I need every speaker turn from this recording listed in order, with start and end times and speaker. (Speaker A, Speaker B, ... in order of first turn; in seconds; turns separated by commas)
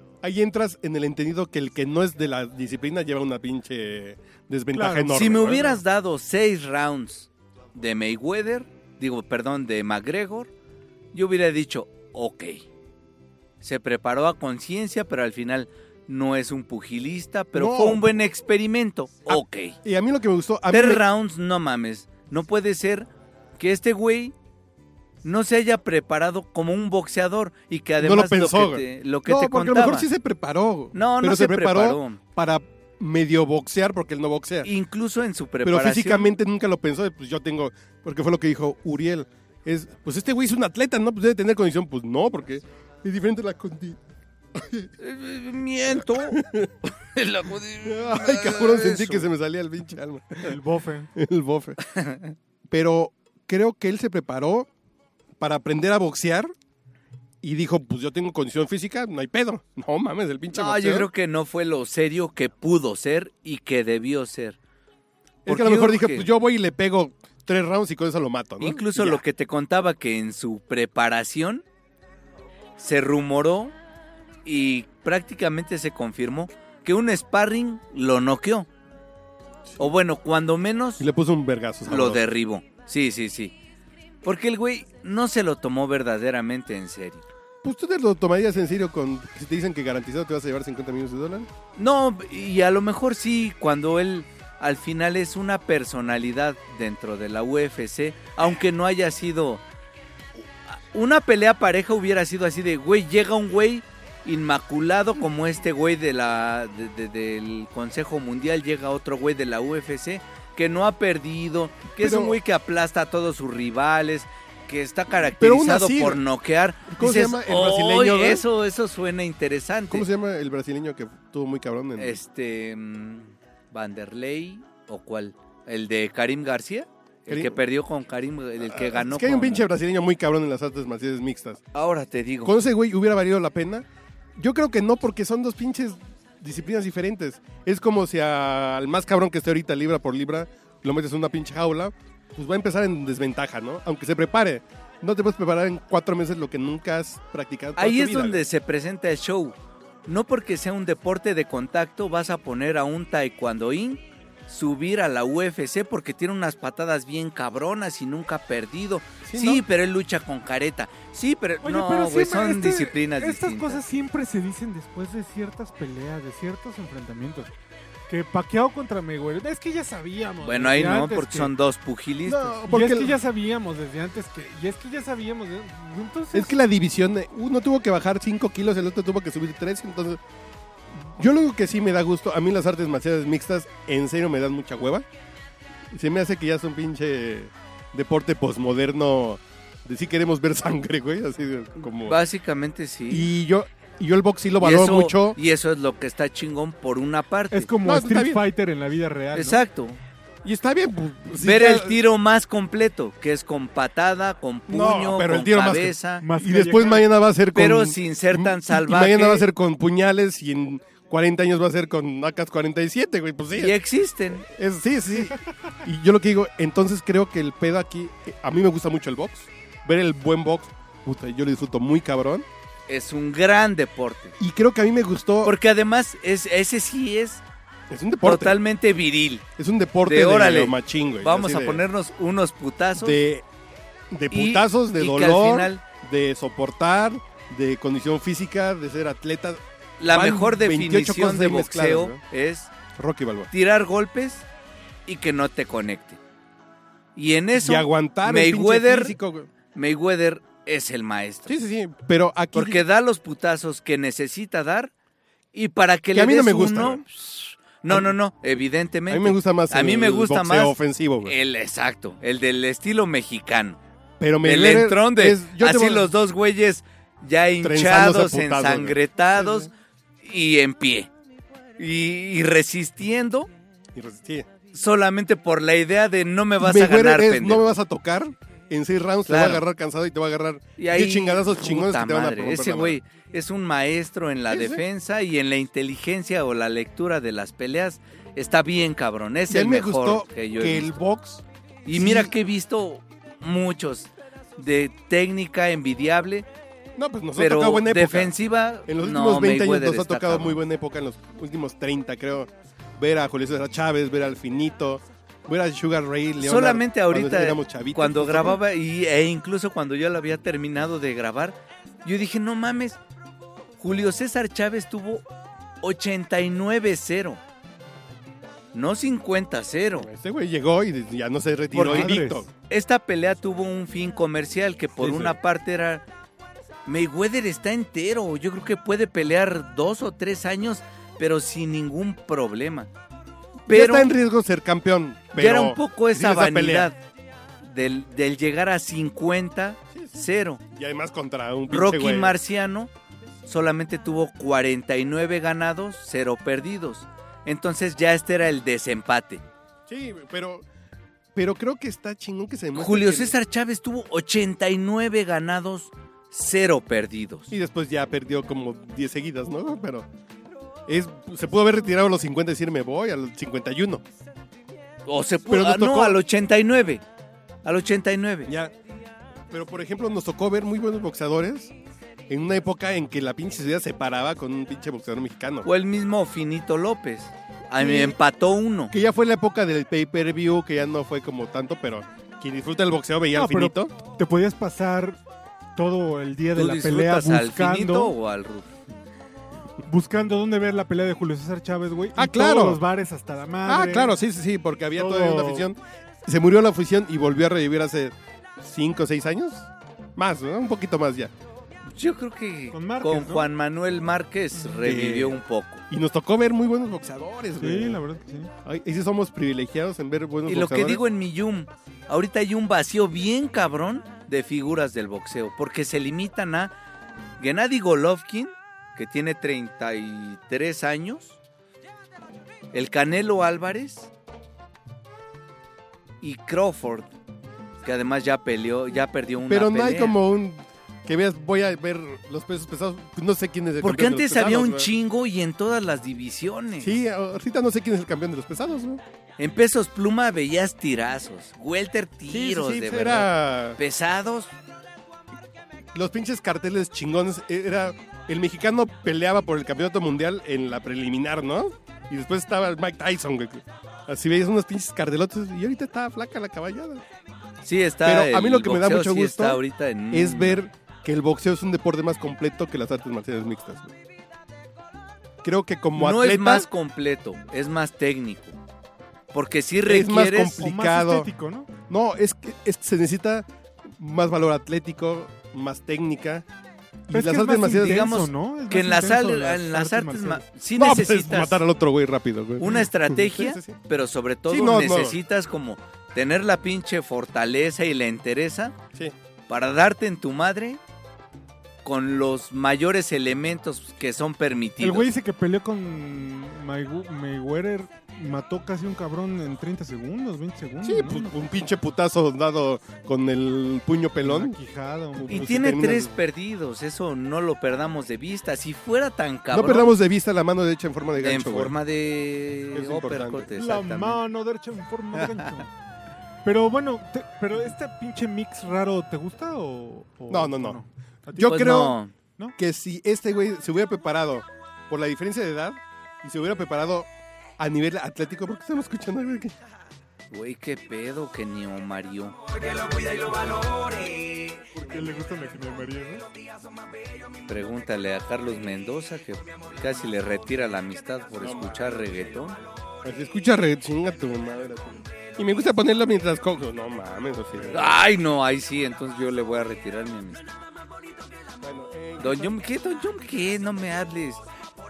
Speaker A: 0.2-5.8, Speaker B: 4.7-5.3, Speaker C: 5.1-10.5, Speaker C: 11.1-12.6, Speaker C: 13.6-19.8, Speaker A: 17.5-18.1, Speaker A: 19.3-21.0, Speaker C: 20.7-24.3, Speaker C: 25.2-30.1, Speaker A: 28.0-34.7, Speaker C: 30.9-32.2, Speaker C: 34.6-36.3, Speaker A: 35.6-44.0, Speaker A: 44.5-44.9, Speaker C: 45.0-49.3, Speaker A: 46.0-46.8, Speaker A: 47.8-50.6, Speaker B: 50.4-51.1, Speaker A: 51.1-51.8, Speaker C: 51.9-52.4, Speaker A: 52.7-54.7, Speaker A: 55.4-56.5, Speaker A: 57.4-61.1, Speaker C: 60.5-64.6, Speaker C: 65.5-66.3, Speaker A: 65.5-69.2, Speaker C: 68.6-71.6, Speaker C: 72.8-73.8, Speaker C: 74.5-78.7, Speaker C: 79.8-81.1, Speaker A: 81.0-82.2, Speaker C: 81.9-83.5, Speaker C: 84.2-87.2, Speaker A: 87.6-91.5, Speaker C: 91.8-99.6, Speaker C: 100.7-120.1, Speaker A: 112.0-112.4, Speaker A: 115.4-116.2, Speaker A: 116.9-118.4, Speaker A: 119.9-122.2, Speaker C: 122.0-129.7, Speaker A: 127.3-127.6, Speaker A: 128.6-131.6, Speaker C: 131.7-132.6, Speaker A: 132.4-148.4, Speaker C: 147.8-163.8, Speaker A: 159.2-159.6, Speaker B: 161.6-167.5, Speaker B: 168.1-171.5, Speaker C: 170.4-172.6, Speaker A: 172.2-173.2, Speaker B: 172.7-176.6, Speaker A: 176.3-180.2, Speaker A: 180.9-185.1, Speaker A: 185.9-192.2, Speaker C: 191.9-193.3, Speaker A: 193.1-195.4, Speaker C: 194.6-197.7, Speaker B: 197.5-199.6, Speaker A: 197.8-198.4, Speaker C: 199.3-200.0, Speaker A: 200.4-202.0, Speaker C: 201.4-206.2, Speaker A: 204.7-213.8, Speaker B: 206.2-207.1, Speaker C: 207.6-209.5, Speaker C: 213.5-214.5, Speaker A: 214.4-222.5, Speaker C: 222.9-224.4, Speaker A: 224.4-225.6, Speaker C: 225.4-227.4, Speaker A: 227.9-228.6, Speaker C: 228.2-229.5, Speaker A: 229.6-231.8, Speaker C: 230.1-233.2, Speaker A: 233.0-233.5, Speaker A: 234.1-242.2, Speaker C: 234.3-235.8, Speaker C: 240.0-242.8, Speaker A: 242.9-243.5, Speaker C: 243.5-244.5, Speaker C: 245.1-246.2, Speaker C: 247.2-249.2, Speaker A: 247.6-249.5, Speaker C: 249.7-251.6, Speaker A: 251.5-252.8, Speaker C: 252.5-254.9, Speaker C: 255.5-263.8, Speaker A: 256.1-257.0, Speaker A: 257.9-258.1, Speaker A: 259.1-261.4, Speaker A: 264.2-266.1, Speaker C: 264.4-269.7, Speaker A: 267.6-269.7, Speaker C: 270.2-271.1, Speaker C: 271.8-273.5, Speaker A: 273.9-274.5, Speaker C: 274.7-277.8, Speaker A: 276.6-283.0, Speaker C: 279.3-279.7, Speaker C: 280.8-291.0, Speaker A: 284.5-284.8, Speaker A: 289.5-292.3, Speaker C: 291.9-296.5, Speaker A: 297.0-298.4, Speaker C: 297.4-300.6, Speaker A: 298.9-308.6, Speaker C: 306.4-313.0, Speaker C: 313.8-315.2, Speaker C: 315.8-317.4, Speaker C: 318.7-320.1, Speaker A: 320.0-322.5, Speaker B: 321.7-322.5, Speaker C: 321.9-322.1, Speaker C: 322.7-326.1, Speaker A: 325.0-325.4, Speaker C: 326.9-332.9, Speaker A: 333.7-336.9, Speaker C: 333.7-334.2, Speaker C: 335.4-337.0, Speaker C: 337.6-340.6, Speaker A: 339.9-342.4, Speaker C: 341.7-342.9, Speaker C: 343.4-349.4, Speaker A: 349.9-350.7, Speaker A: 351.4-353.4, Speaker C: 352.8-357.5, Speaker A: 357.5-360.1, Speaker A: 360.9-364.0, Speaker C: 365.1-367.0, Speaker A: 365.5-366.2, Speaker C: 367.6-368.5, Speaker A: 368.5-368.7, Speaker A: 369.5-371.7, Speaker A: 372.3-375.7, Speaker C: 375.6-378.9, Speaker A: 377.8-378.2, Speaker A: 378.9-383.9, Speaker B: 383.4-385.2, Speaker B: 385.8-388.1, Speaker C: 386.6-388.8, Speaker B: 389.9-394.2, Speaker A: 392.2-392.8, Speaker A: 393.7-401.3, Speaker B: 394.9-395.7, Speaker C: 401.9-405.8, Speaker B: 402.7-403.5, Speaker A: 404.8-405.4, Speaker A: 405.9-408.0, Speaker B: 407.6-408.5, Speaker A: 408.6-411.0, Speaker C: 410.5-416.7, Speaker C: 417.4-421.4, Speaker C: 422.7-424.1, Speaker C: 426.2-427.1, Speaker C: 427.8-430.2, Speaker A: 429.5-434.9, Speaker C: 433.8-436.9, Speaker A: 436.8-439.0, Speaker C: 439.4-444.5, Speaker A: 442.3-443.8, Speaker A: 445.9-457.0, Speaker C: 457.6-460.6, Speaker A: 458.0-459.6, Speaker A: 460.1-463.9, Speaker A: 465.4-466.7, Speaker C: 466.0-468.6, Speaker C: 469.3-470.7, Speaker A: 469.8-471.3, Speaker B: 470.6-471.7, Speaker A: 471.9-476.5, Speaker A: 477.1-478.1, Speaker B: 477.1-480.4, Speaker C: 477.6-481.6, Speaker A: 480.8-483.8, Speaker C: 482.6-488.8, Speaker A: 484.5-485.2, Speaker C: 489.5-490.8, Speaker C: 491.9-495.1, Speaker B: 494.8-501.4, Speaker A: 500.8-504.6, Speaker B: 504.2-505.9, Speaker A: 505.1-506.1, Speaker C: 505.3-510.0, Speaker A: 509.5-511.8, Speaker C: 511.2-514.2, Speaker A: 512.7-513.5, Speaker B: 513.5-515.7, Speaker C: 515.1-515.5, Speaker B: 516.5-521.8, Speaker A: 520.3-520.8, Speaker A: 521.4-522.0, Speaker C: 521.4-522.1, Speaker A: 522.6-529.6, Speaker C: 530.3-534.5, Speaker B: 534.8-536.2, Speaker C: 537.5-542.6, Speaker A: 541.4-542.3, Speaker A: 543.0-548.0, Speaker C: 547.7-550.5, Speaker A: 551.6-552.6, Speaker C: 552.2-554.4